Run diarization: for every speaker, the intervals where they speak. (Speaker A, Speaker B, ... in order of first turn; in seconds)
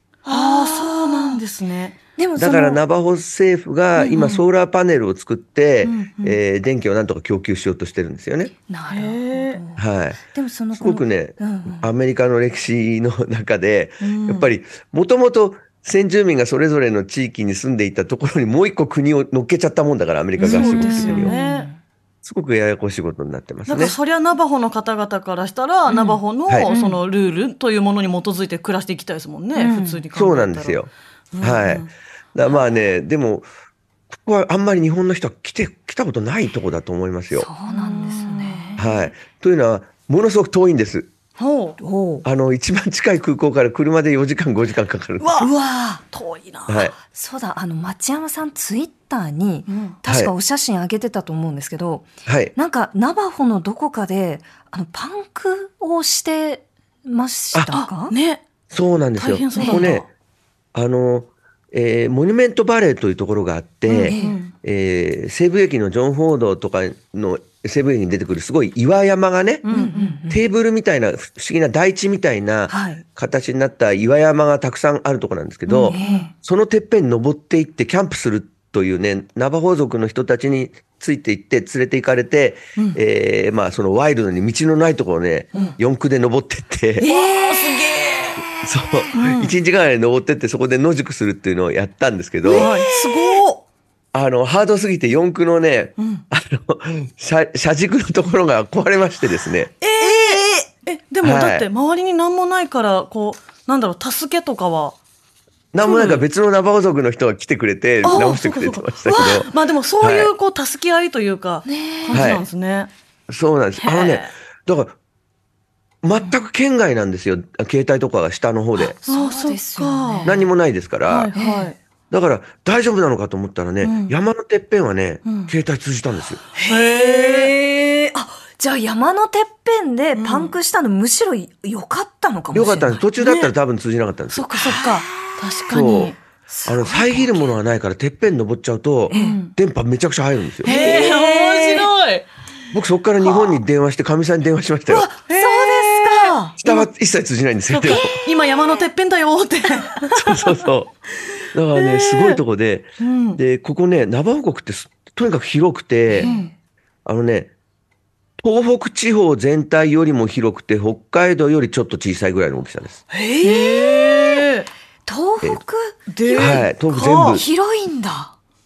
Speaker A: 0.2-1.4, 2.2-2.8, 8.7-11.9, 20.4-21.8, 25.9-27.0, 29.5-30.1, 37.3-38.9, 41.8-42.2, 45.4-46.0, 47.0-58.1, 59.5-59.9, 64.0-64.4, 69.7-70.4, 72.7-73.0, 75.7-76.3, 87.0-89.1, 92.5-93.4, 100.0-100.5, 111.7-112.3, 119.0-120.4, 121.3-121.7, 126.5-133.0, 134.4-135.8, 136.5-137.5, 139.1-139.5, 140.6-141.9, 144.9-146.5, 147.9-148.3, 156.1-156.5, 163.2-164.4, 165.1-168.3
Speaker B: 0.2-2.0, 4.0-4.4, 5.8-6.4, 8.9-9.6, 14.0-14.5, 20.4-21.7, 23.7-30.8, 31.3-31.9, 37.7-38.8, 41.4-41.8, 45.2-45.5, 46.1-46.9, 49.7-50.0, 57.7-58.4, 59.2-60.0, 63.9-64.5, 69.6-70.2, 75.7-76.3, 87.0-88.4, 89.1-89.5, 92.4-93.6, 96.0-96.2, 99.8-104.9, 105.8-106.2, 108.0-112.9, 113.8-114.3, 119.0-120.5, 121.0-121.8, 123.8-124.1, 125.2-125.5, 126.5-127.6, 130.2-130.5, 133.2-133.5, 134.3-136.2, 139.1-139.5, 140.6-142.3, 145.3-146.9, 147.7-150.6, 151.7-152.4, 153.0-153.4, 156.2-156.5, 163.1-164.7, 166.1-167.4
Speaker C: 2.4-8.5, 9.8-10.2, 10.7-21.3, 22.2-23.9, 30.1-30.9, 31.4-33.5, 34.1-37.5, 38.8-41.1, 42.2-45.4, 46.7-46.9, 50.0-50.3, 52.2-52.5, 58.7-60.0, 60.7-69.7, 70.3-87.0, 88.6-92.7, 94.1-99.7, 101.2-101.7, 105.7-109.5, 110.0-110.3, 112.1-112.4, 113.3-114.9, 116.0-119.0, 120.2-121.3, 122.1-126.4, 132.5-134.5, 135.7-136.1, 136.7-140.7, 142.7-145.1, 146.6-148.2, 150.1-150.9, 151.5-156.3, 157.0-157.5, 158.4-163.0, 166.4-167.4